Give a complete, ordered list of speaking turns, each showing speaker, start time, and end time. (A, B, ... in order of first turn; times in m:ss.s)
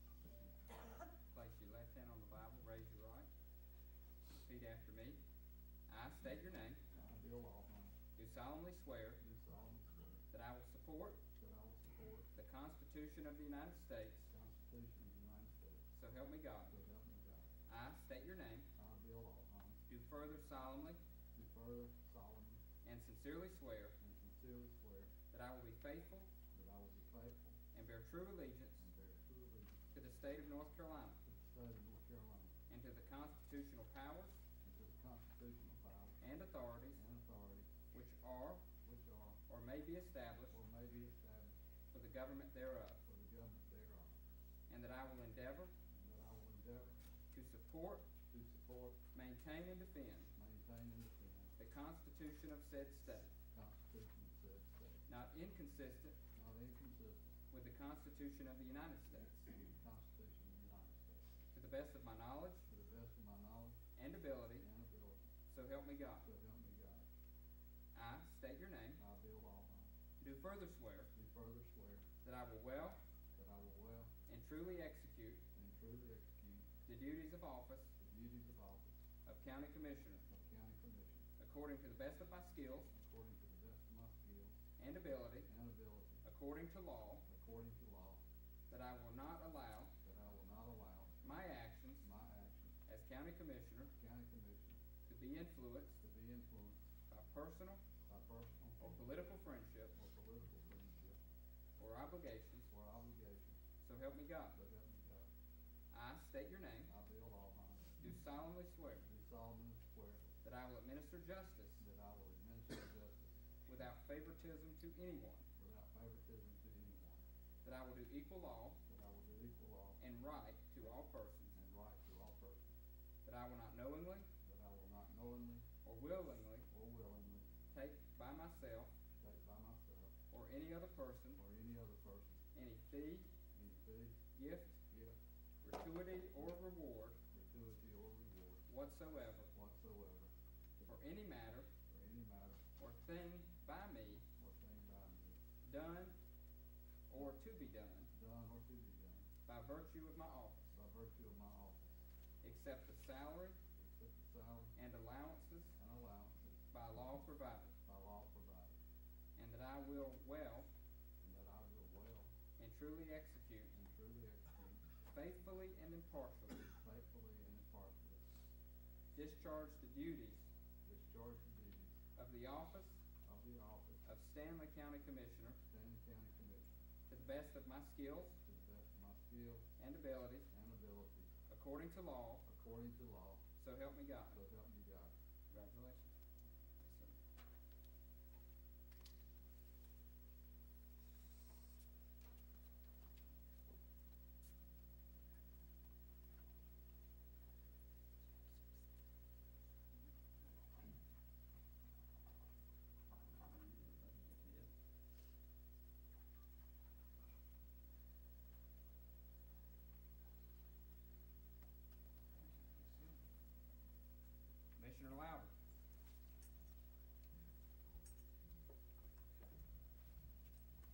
0:01.3-0:03.3 A
0:04.3-0:05.2 A
0:05.9-0:06.8 A
0:06.9-0:08.0 B
0:08.2-0:09.2 A
0:09.2-0:10.2 B
0:10.3-0:11.2 A
0:11.4-0:12.3 B
0:12.3-0:14.3 A
0:14.3-0:15.8 B
0:15.9-0:16.8 A
0:16.7-0:17.5 B
0:17.7-0:18.7 A
0:18.8-0:19.8 B
0:19.9-0:21.0 A
0:21.3-0:22.6 B
0:22.8-0:24.0 A
0:24.0-0:25.1 B
0:25.3-0:26.3 A
0:26.5-0:27.6 B
0:27.7-0:28.9 A
0:28.8-0:29.8 B
0:29.9-0:31.2 A
0:31.2-0:32.5 B
0:32.7-0:34.4 A
0:34.6-0:36.2 B
0:36.2-0:37.0 A
0:36.9-0:37.7 B
0:37.9-0:38.6 A
0:38.8-0:39.4 B
0:39.5-0:40.6 A
0:40.5-0:41.5 B
0:41.9-0:43.0 A
0:43.0-0:44.1 B
0:44.7-0:45.7 A
0:45.9-0:47.0 B
0:47.3-0:48.1 A
0:48.3-0:49.0 B
0:49.1-0:50.3 A
0:50.3-0:51.5 B
0:51.6-0:53.3 A
0:53.5-0:55.0 B
0:55.1-0:56.2 A
0:56.3-0:57.3 B
0:57.5-0:59.5 A
0:59.5-1:01.2 B
1:01.5-1:02.6 A
1:02.7-1:03.8 B
1:04.0-1:04.7 A
1:04.6-1:05.3 B
1:05.5-1:06.3 A
1:06.2-1:07.1 B
1:07.9-1:09.0 A
1:09.0-1:09.9 B
1:10.2-1:11.1 A
1:11.1-1:12.1 B
1:12.2-1:13.0 A
1:13.3-1:14.1 B
1:14.3-1:15.4 A
1:15.5-1:16.7 B
1:16.8-1:17.9 A
1:18.0-1:18.9 B
1:19.2-1:20.2 A
1:20.3-1:21.2 B
1:21.4-1:22.9 A
1:22.9-1:24.6 B
1:24.8-1:25.5 A
1:25.4-1:26.2 B
1:26.2-1:27.2 A
1:27.3-1:28.2 B
1:28.7-1:29.9 A
1:30.0-1:31.4 B
1:31.2-1:32.1 A
1:32.0-1:32.8 B
1:32.9-1:33.9 A
1:34.0-1:34.8 B
1:35.1-1:36.0 A
1:36.0-1:36.8 B
1:37.1-1:37.8 A
1:38.1-1:39.0 B
1:38.8-1:39.9 A
1:39.9-1:41.2 B
1:41.8-1:42.7 A
1:42.7-1:43.6 B
1:43.8-1:44.6 A
1:44.5-1:45.3 B
1:45.9-1:46.9 A
1:46.8-1:48.0 B
1:48.0-1:49.0 A
1:49.0-1:50.3 B
1:50.4-1:51.8 A
1:51.8-1:53.3 B
1:53.7-1:55.5 A
1:55.6-1:57.2 B
1:57.6-1:58.8 A
1:58.9-2:00.0 B
2:00.0-2:01.5 A
2:01.5-2:02.7 B
2:03.2-2:04.3 A
2:04.4-2:05.6 B
2:05.8-2:06.7 A
2:06.7-2:07.5 B
2:07.7-2:08.9 A
2:09.2-2:10.1 B
2:10.3-2:11.4 A
2:11.3-2:12.4 B
2:12.5-2:13.3 A
2:13.5-2:14.2 B
2:14.3-2:14.8 A
2:14.9-2:15.2 B
2:15.6-2:17.2 A
2:17.3-2:18.7 B
2:18.7-2:19.5 A
2:19.5-2:20.3 B
2:20.8-2:21.7 A
2:21.9-2:22.6 B
2:22.8-2:24.2 A
2:24.4-2:25.4 B
2:25.6-2:26.2 A
2:27.1-2:28.1 A
2:28.1-2:29.3 B
2:29.4-2:30.7 A
2:30.7-2:31.9 B
2:32.4-2:33.6 A
2:33.8-2:34.7 B
2:34.7-2:35.8 A
2:35.8-2:36.4 B
2:36.7-2:37.7 A
2:37.8-2:38.8 B
2:39.4-2:40.7 A
2:41.2-2:42.3 B
2:42.6-2:43.7 A
2:43.7-2:44.8 B
2:45.1-2:46.7 A
2:46.6-2:48.3 B
2:49.1-2:50.5 A
2:50.8-2:51.9 B
2:52.2-2:53.0 A
2:53.2-2:54.0 B
2:54.0-2:55.6 A
2:55.7-2:56.7 B
2:57.1-2:58.4 A
2:58.4-2:59.7 B
2:59.8-3:00.5 A
3:00.5-3:01.3 B
3:01.5-3:02.4 A
3:02.4-3:03.4 B
3:03.6-3:04.4 A
3:04.3-3:05.1 B
3:05.5-3:06.1 A
3:06.8-3:07.1 A
3:23.5-3:24.6 A
3:32.4-3:33.2 A
3:34.8-3:35.5 A